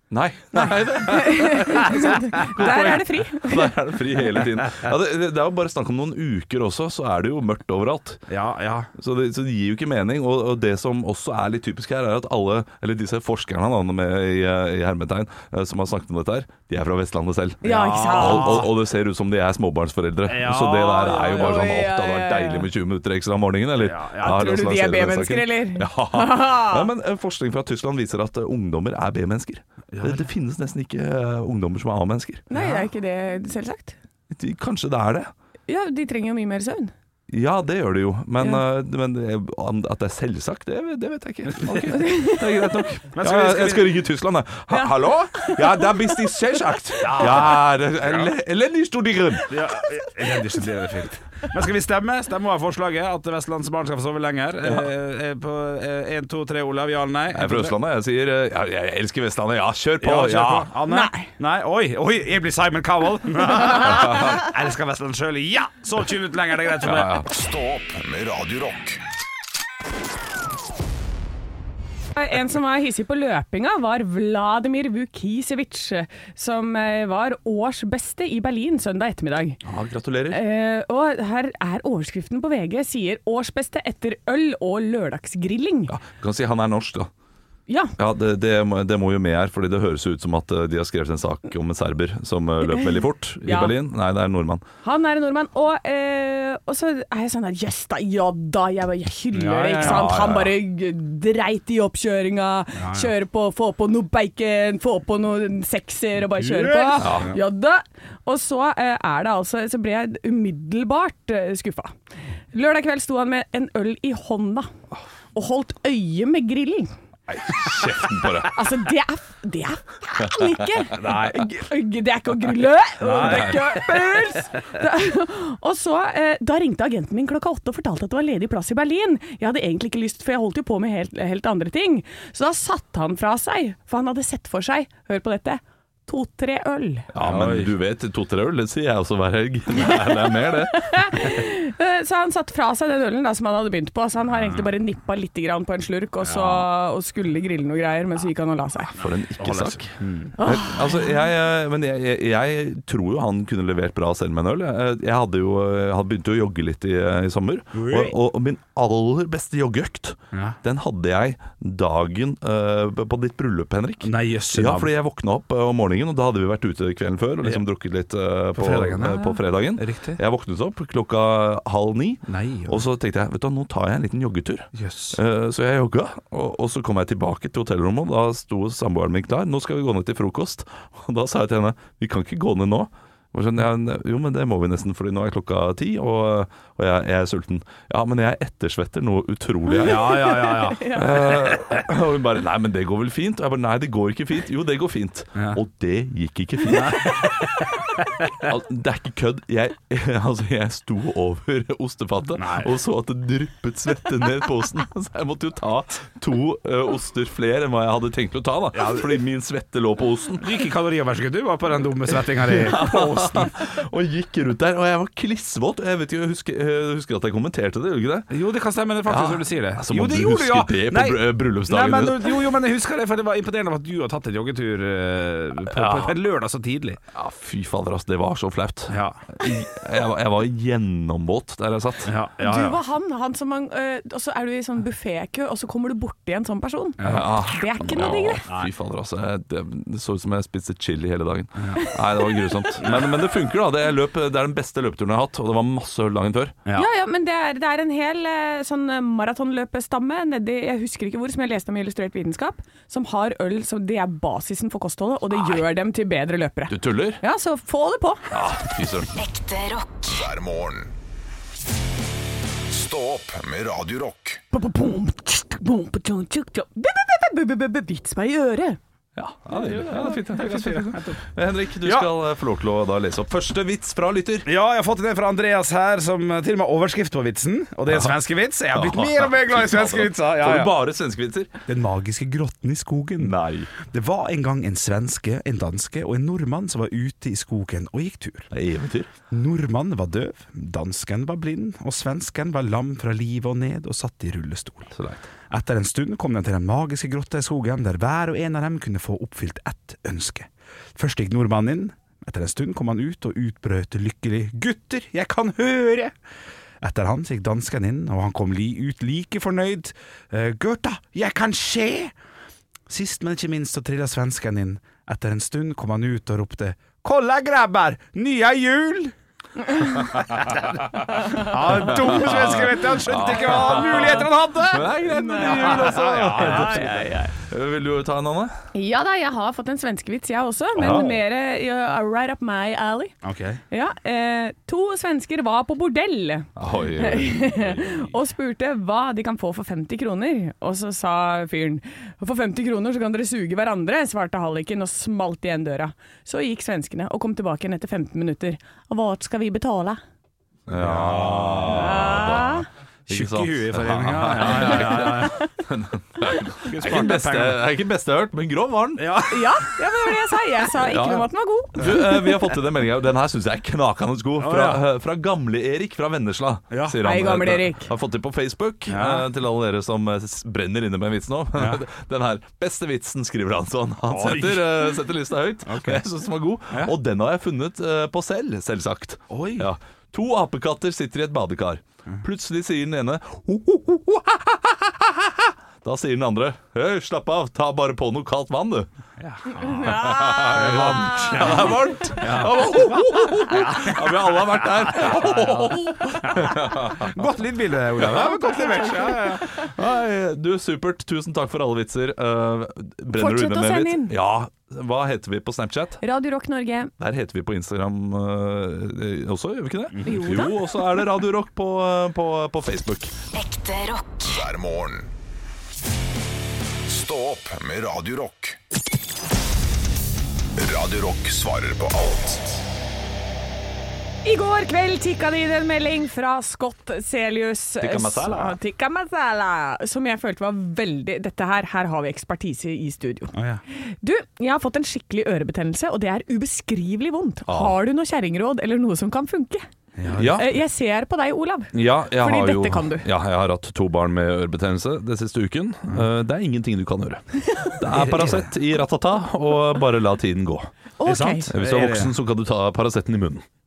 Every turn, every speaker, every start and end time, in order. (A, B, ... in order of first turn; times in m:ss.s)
0:00.1-0:08.2 A
0:00.5-0:03.7 B
0:08.3-0:08.9 C
0:09.0-0:32.5 A
0:17.6-0:18.7 C
0:17.6-0:18.6 B
0:20.3-0:21.6 C
0:21.0-0:22.7 B
0:23.8-0:24.5 C
0:24.2-0:26.9 B
0:29.9-0:30.3 C
0:32.5-0:34.0 B
0:32.5-0:32.8 C
0:34.3-0:35.3 A
0:35.7-0:36.9 B
0:37.3-0:49.6 A
0:41.5-0:42.0 C
0:41.9-0:42.4 B
0:43.1-0:44.0 C
0:44.7-0:46.3 B
0:47.0-0:48.3 C
0:49.5-0:57.8 C
0:54.6-0:54.9 A
0:57.3-1:00.7 A
1:00.0-1:07.1 C
1:00.9-1:01.3 B
1:06.8-1:07.3 A
1:07.2-1:09.0 D
1:12.2-1:19.6 B
1:19.6-1:20.4 A
1:20.3-1:25.9 B
1:25.9-1:27.1 A
1:27.7-1:28.0 B
1:28.0-1:34.6 A
1:33.4-1:33.7 B
1:34.8-1:51.9 B
1:39.3-1:40.2 C
1:39.8-1:40.6 A
1:42.8-1:43.1 C
1:46.3-1:47.4 C
1:47.0-1:47.3 A
1:52.5-1:54.7 B
1:55.3-1:56.9 B
1:57.3-1:58.6 A
1:58.5-2:17.1 B
2:00.9-2:01.5 C
2:03.0-2:03.8 C
2:03.2-2:03.6 A
2:17.1-2:21.0 A
2:17.2-2:17.7 C
2:19.8-2:28.9 B
2:26.3-2:26.6 C
2:28.9-3:17.5 A
2:29.0-2:30.4 C
2:30.4-2:31.1 B
2:37.7-2:38.2 C
2:44.0-2:44.9 C
2:48.6-2:50.2 C
2:52.3-2:52.8 C
2:54.7-2:55.2 C
3:09.7-3:10.9 C
3:10.0-3:11.3 B
3:16.7-3:17.4 C
3:18.4-3:30.5 A
3:22.4-3:22.8 C
3:28.7-3:29.2 C
3:30.4-3:33.5 C
3:32.5-3:38.3 A
3:38.3-3:47.0 C
3:39.1-3:42.5 A
3:45.7-3:46.2 A
3:47.1-3:52.1 A
3:48.9-3:49.2 C
3:52.0-3:52.8 C
3:52.4-3:58.4 B
3:57.0-3:57.3 C
3:57.0-4:06.6 A
3:58.5-3:58.7 C
4:01.9-4:02.6 B
4:02.8-4:03.1 C
4:06.8-4:18.3 B
4:16.7-4:17.2 A
4:18.3-4:19.1 A
4:19.2-4:20.2 E
4:20.1-4:20.9 D
4:22.7-4:24.4 D
4:24.5-4:28.8 B
4:29.2-4:34.5 A
4:29.5-4:31.2 C
4:31.8-4:32.1 C
4:34.4-4:40.8 C
4:37.9-4:38.1 A
4:38.7-4:41.5 A
4:41.7-4:43.3 C
4:43.2-4:43.7 A
4:43.8-4:48.5 C
4:48.5-4:49.1 A
4:49.3-4:54.9 C
4:55.0-4:55.3 A
4:55.5-5:06.2 C
5:06.8-5:12.1 C
5:12.9-5:19.2 C
5:20.1-5:27.0 C
5:21.9-5:28.6 A
5:25.1-5:27.3 B
5:28.7-5:33.1 B
5:30.8-5:31.1 A
5:30.8-5:31.0 C
5:33.2-5:33.6 C
5:33.7-5:50.0 B
5:36.6-5:37.8 A
5:50.7-5:59.2 A
5:50.7-5:52.2 C
5:51.7-5:52.7 B
5:53.1-5:55.5 C
5:56.7-5:57.6 C
5:59.0-5:59.7 C
5:59.3-6:02.3 B
6:00.8-6:28.9 A
6:04.4-6:04.8 C
6:06.7-6:07.0 C
6:07.0-6:07.9 B
6:08.9-6:09.3 C
6:11.6-6:11.8 C
6:14.1-6:14.7 C
6:15.7-6:16.0 C
6:19.3-6:19.7 C
6:29.2-6:39.5 C
6:29.6-6:31.7 B
6:29.8-6:37.2 A
6:38.1-6:38.8 A
6:38.4-6:39.2 B
6:39.6-6:46.0 A
6:43.1-6:44.1 B
6:46.0-6:46.9 B
6:47.0-6:53.2 A
6:50.1-6:50.7 B
6:53.3-6:54.3 E
6:54.2-6:55.1 D
6:56.8-6:58.6 D
7:00.6-7:02.6 D
7:04.2-7:19.7 B
7:07.8-7:08.6 A
7:13.3-7:13.6 C
7:17.5-7:17.8 A
7:20.0-7:20.4 C
7:20.2-7:20.5 A
7:20.3-7:23.1 B
7:21.7-7:30.7 A
7:27.9-7:28.5 C
7:31.0-7:31.5 B
7:31.1-7:32.1 C
7:31.5-7:33.4 A